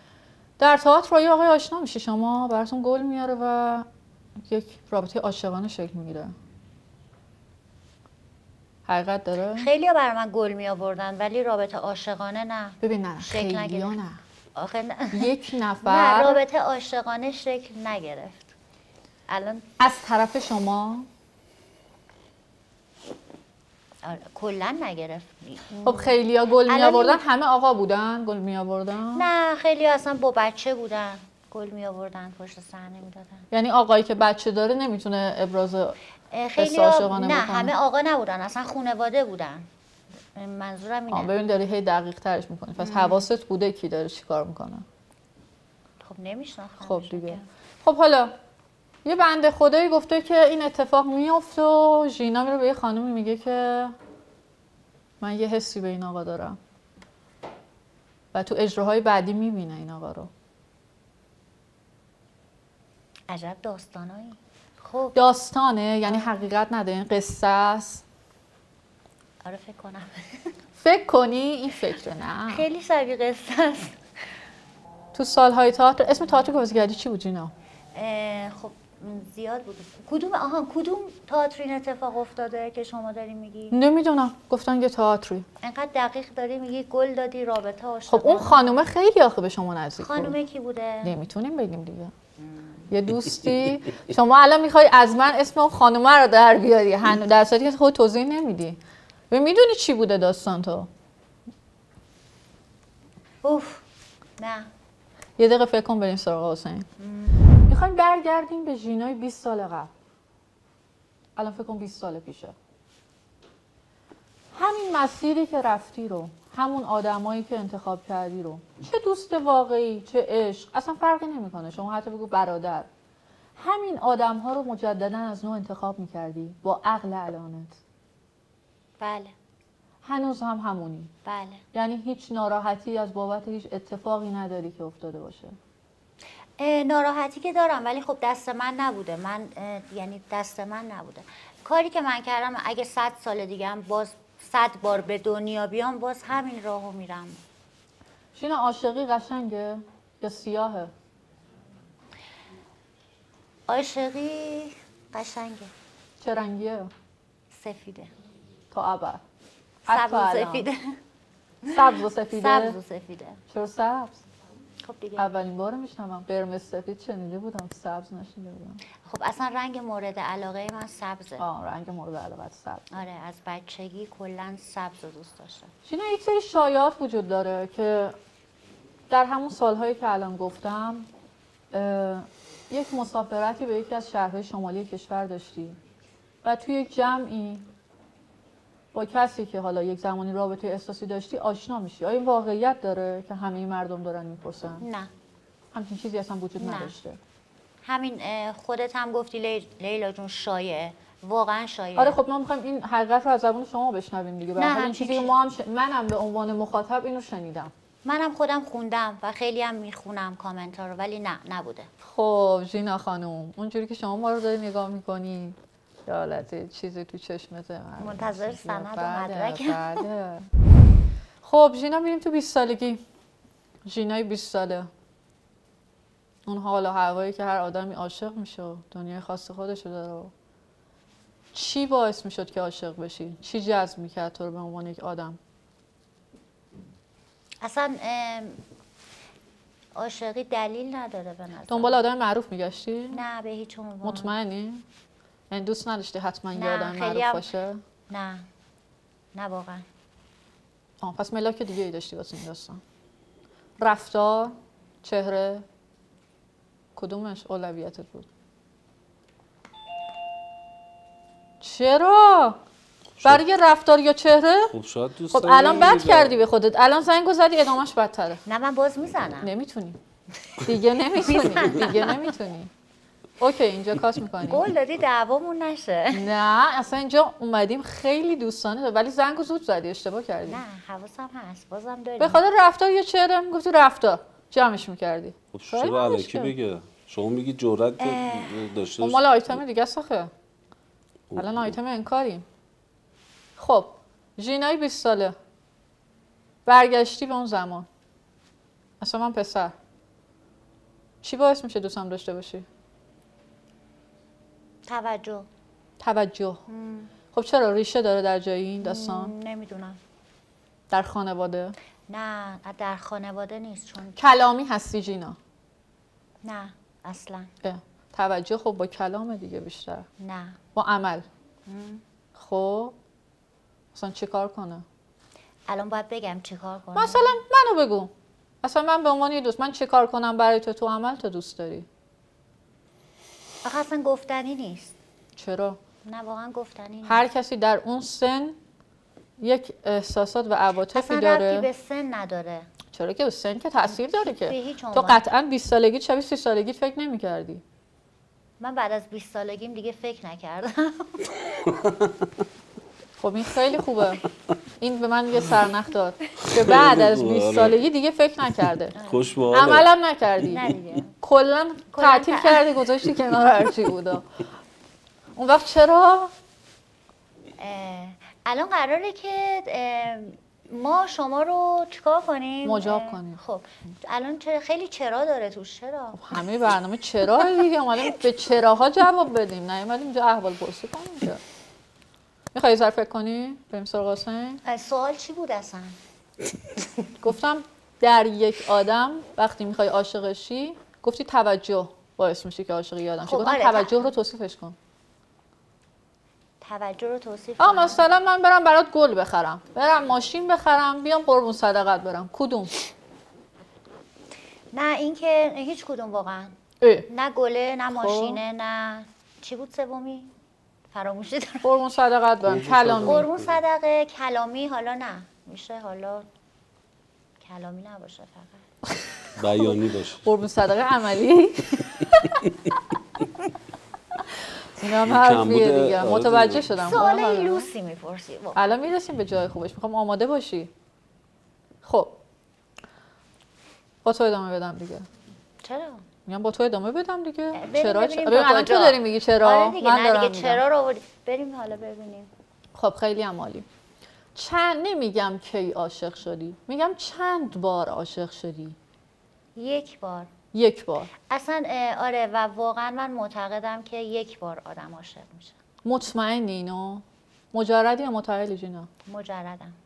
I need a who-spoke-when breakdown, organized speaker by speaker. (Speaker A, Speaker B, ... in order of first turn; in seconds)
Speaker A: 0.6-3.9, 4.4-6.3, 8.8-9.7, 12.8-14.2, 15.1-16.4, 19.8-21.1, 25.8-29.2, 33.5-35.9, 36.6-37.7, 41.1-44.8, 46.8-48.3, 49.0-53.9, 55.2-56.6, 58.3-60.3, 65.1-68.0, 70.8-72.6, 75.1-77.5, 83.7-85.4, 88.1-90.3, 91.0-92.1, 92.9-98.8, 99.3-100.9, 105.4-106.8, 107.7-109.9, 111.3-112.5, 114.5-122.9, 123.6-127.8, 130.0-131.1, 131.7-135.6, 148.3-150.9, 156.2-156.9, 158.7-159.2, 159.9-160.7, 161.7-162.8, 163.5-164.2, 165.2-168.8, 171.4-172.8, 175.8-178.1, 179.1-181.1, 181.7-185.8, 186.4-187.7, 188.9-194.8, 195.7-197.2, 201.9-207.7, 212.0-220.5, 221.4-223.0, 223.8-224.9, 226.4-230.3, 231.5-235.4, 241.7-243.2, 244.0-244.8, 245.5-247.8, 251.0-252.8, 253.8-255.6, 256.9-258.3, 261.6-262.6, 263.2-264.7, 265.3-268.4, 269.4-270.0, 270.6-272.7, 273.4-274.6, 276.1-280.6, 282.2-286.5, 289.0-290.3, 291.4-292.4, 293.6-295.3, 296.6-297.9, 299.0-299.7, 301.2-302.6, 306.0-306.6, 307.3-309.3, 310.9-311.7, 314.2-315.4, 317.6-320.1, 320.7-321.2, 322.4-322.9, 323.9-324.8, 326.9-328.1, 328.6-331.9, 335.4-335.8, 337.0-338.6, 339.4-341.7, 342.9-347.6, 353.2-354.2, 354.8-358.9, 359.5-360.6, 361.2-364.4, 365.4-366.3, 372.6-373.4, 376.1-381.4, 382.5-384.6, 387.2-394.7, 397.6-402.7, 406.8-407.1, 407.9-408.4, 411.6-413.3, 418.9-422.4, 424.8-427.7, 428.6-430.7, 431.8-432.1, 434.0-435.0, 436.3-440.6, 442.7-443.6, 444.3-448.7, 450.5-451.1, 455.8-458.9
Speaker B: 9.6-14.0, 14.6-18.5, 19.3-19.6, 24.0-27.2, 29.1-33.5, 36.3-39.7, 40.4-41.3, 42.8-43.3, 46.0-47.4, 63.3-65.2, 66.0-66.5, 69.4-70.2, 72.5-74.0, 77.9-83.8, 85.6-88.7, 90.0-91.1, 103.4-103.8, 104.4-104.7, 107.0-107.4, 129.0-129.3, 131.2-131.6, 136.6-147.4, 153.7-155.7, 157.5-158.1, 159.9-160.8, 161.6-163.4, 164.8-165.3, 169.0-171.4, 172.9-175.7, 194.8-195.1, 196.6-196.9, 197.8-202.2, 204.6-205.3, 208.0-211.9, 218.0-220.0, 237.6-238.6, 239.9-242.0, 243.1-244.3, 246.5-247.4, 248.1-248.4, 249.3-249.8, 265.6-265.9, 268.4-269.5, 271.1-272.2, 274.4-276.2, 280.5-282.4, 288.0-288.7, 304.9-305.5, 306.7-307.1, 308.8-310.0, 312.1-314.3, 316.4-317.5, 320.2-320.6, 321.7-322.0, 325.7-327.3, 333.6-334.9, 336.0-337.2, 340.9-342.7, 343.9-345.2, 348.6-351.2, 358.9-359.3, 360.4-361.2, 361.9-362.8, 367.6-376.2, 384.6-386.0, 393.2-394.1, 396.6-398.1, 404.7-406.6, 407.1-410.3, 410.9-411.7, 413.0-416.2, 417.4-418.6, 426.8-428.6, 435.6-436.0, 437.5-442.3, 449.6-450.3, 451.3-455.6, 459.1-459.8
Speaker C: 264.7-266.4, 285.5-289.6, 291.3-291.7, 351.6-352.2, 356.5-357.8, 359.0-359.9, 412.4-413.6, 419.4-420.3, 425.1-426.7